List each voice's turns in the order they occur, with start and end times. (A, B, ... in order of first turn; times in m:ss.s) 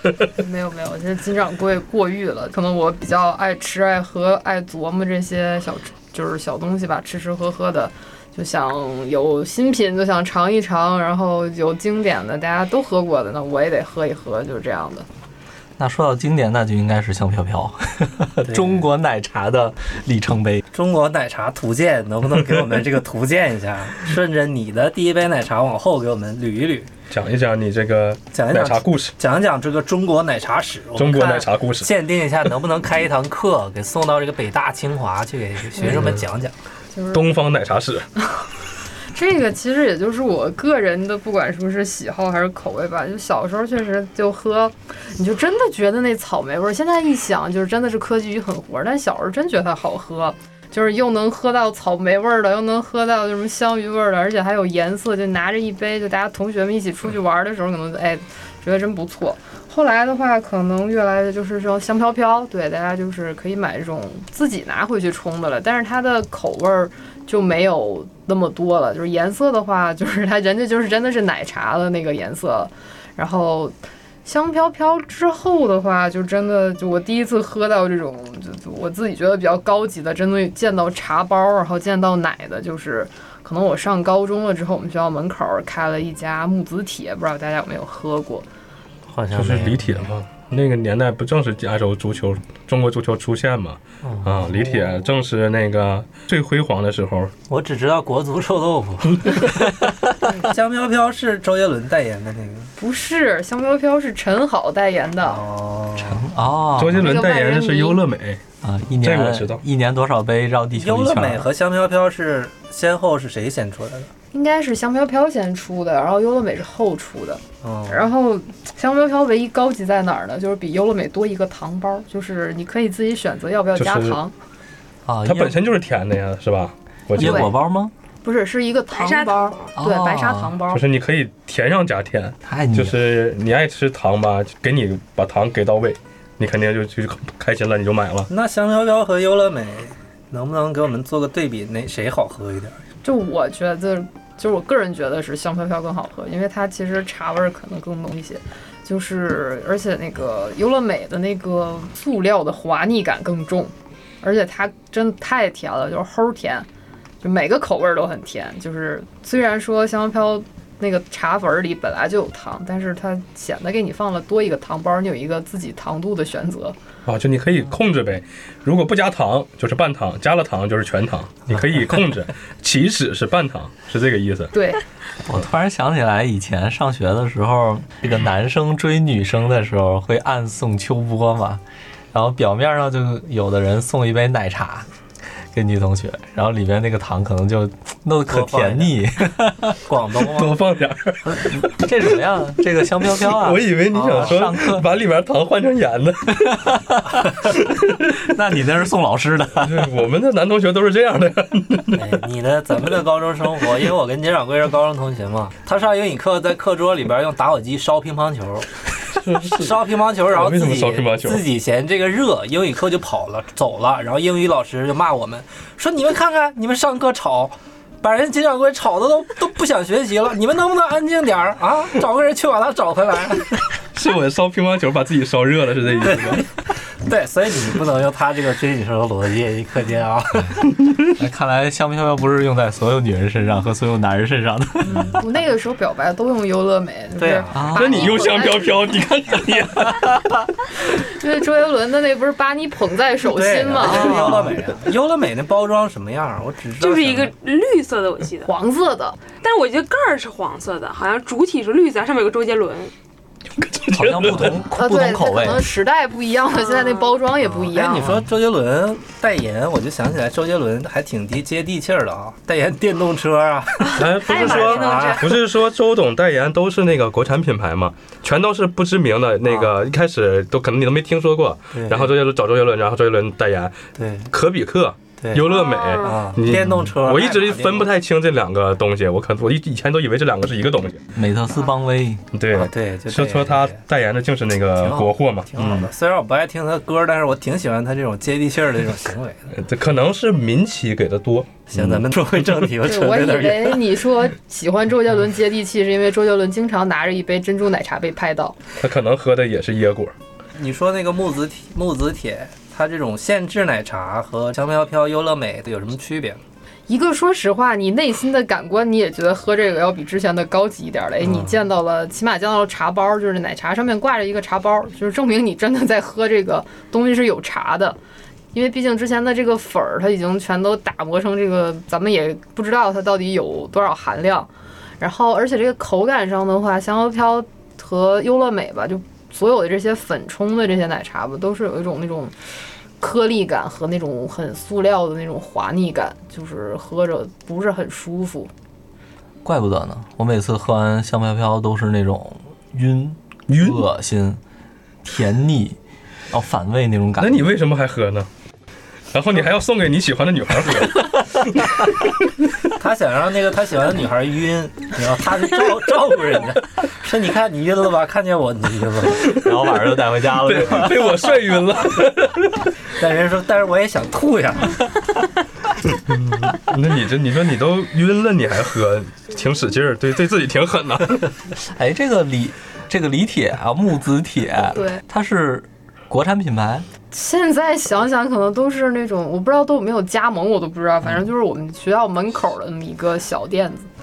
0:00.4-0:15.1 A
0:15.8-0:20.6 B
0:18.4-0:18.8 C
0:20.7-0:26.9 C
0:27.1-0:29.1 D
0:28.3-0:36.5 C
0:31.0-0:31.9 D
0:35.8-0:36.2 D
0:36.9-0:37.4 A
0:37.1-0:38.1 D
0:39.1-1:28.5 A
1:29.1-1:30.1 C
1:29.3-1:37.3 D
1:34.0-1:34.8 C
1:37.5-1:42.7 C
1:42.8-1:45.4 A
1:45.2-1:46.3 C
1:46.0-1:47.1 B
1:46.7-1:48.4 D
1:47.0-1:48.0 A
1:48.6-1:51.5 B
1:49.0-1:49.6 D
1:50.7-1:54.1 C
1:54.3-2:04.3 A
1:57.6-1:58.1 C
2:03.8-2:04.2 D
2:05.0-2:05.6 B
2:05.2-2:07.5 D
2:07.1-2:07.9 B
2:07.2-2:07.5 A
2:08.2-2:10.8 A
2:08.9-2:09.5 E
2:09.8-2:10.6 B
2:10.7-2:18.3 D
2:12.4-2:13.0 B
2:18.3-2:22.8 C
2:23.0-2:36.7 A
2:37.2-2:46.8 A
2:47.0-2:54.5 D
2:54.5-2:54.8 A
2:55.2-3:01.6 B
3:02.1-3:04.9 B
3:05.5-3:09.8 B
3:08.3-3:08.9 C
3:09.8-3:10.6 C
3:10.3-3:11.8 D
3:11.2-3:14.9 B
3:13.3-3:18.3 D
3:13.9-3:14.4 C
3:16.5-3:19.9 B
3:19.6-3:22.2 D
3:21.9-3:43.6 C
3:29.2-3:31.4 D
3:43.9-3:46.4 D
3:46.0-3:50.6 C
3:50.8-3:51.1 D
3:51.2-3:55.1 B
3:54.8-3:59.0 A
3:57.2-3:57.8 C
3:57.5-3:58.1 B
3:57.7-4:00.3 D
4:00.8-4:04.5 A
4:03.3-4:07.3 C
4:03.8-4:04.6 B
4:06.8-4:08.5 E
4:08.4-4:09.2 A
4:09.4-4:12.9 E
4:13.5-4:14.6 D
4:13.9-4:15.7 B
4:14.7-4:18.2 A
4:16.8-4:17.1 E
4:17.5-4:25.4 C
4:23.9-4:25.3 E
4:23.9-4:33.8 D
4:29.4-4:29.8 C
4:31.7-4:32.1 C
4:34.0-4:34.3 C
4:34.3-4:41.0 D
4:35.2-4:35.4 C
4:35.4-4:36.2 E
4:36.0-4:37.9 C
4:41.1-4:42.2 B
4:42.3-4:45.9 D
4:42.5-4:43.8 C
4:44.8-4:49.5 C
4:49.5-4:52.0 D
4:51.7-4:53.9 C
4:52.8-4:58.6 A
4:58.8-5:00.1 D
5:00.6-5:06.4 C
5:06.9-5:18.0 A
5:11.2-5:11.6 C
5:18.5-5:32.3 A
5:33.0-5:38.5 A
5:39.4-5:44.4 B
5:43.5-5:43.8 D
5:45.0-5:45.8 B
5:46.3-5:47.4 B
5:47.2-5:48.3 D
5:49.1-5:51.8 D
5:52.8-5:59.4 C
5:59.4-6:01.2 B
6:00.2-6:02.7 D
6:03.0-6:04.8 C
6:05.9-6:11.3 D
6:11.6-6:16.9 B
6:14.7-6:15.0 A
6:17.1-6:23.9 A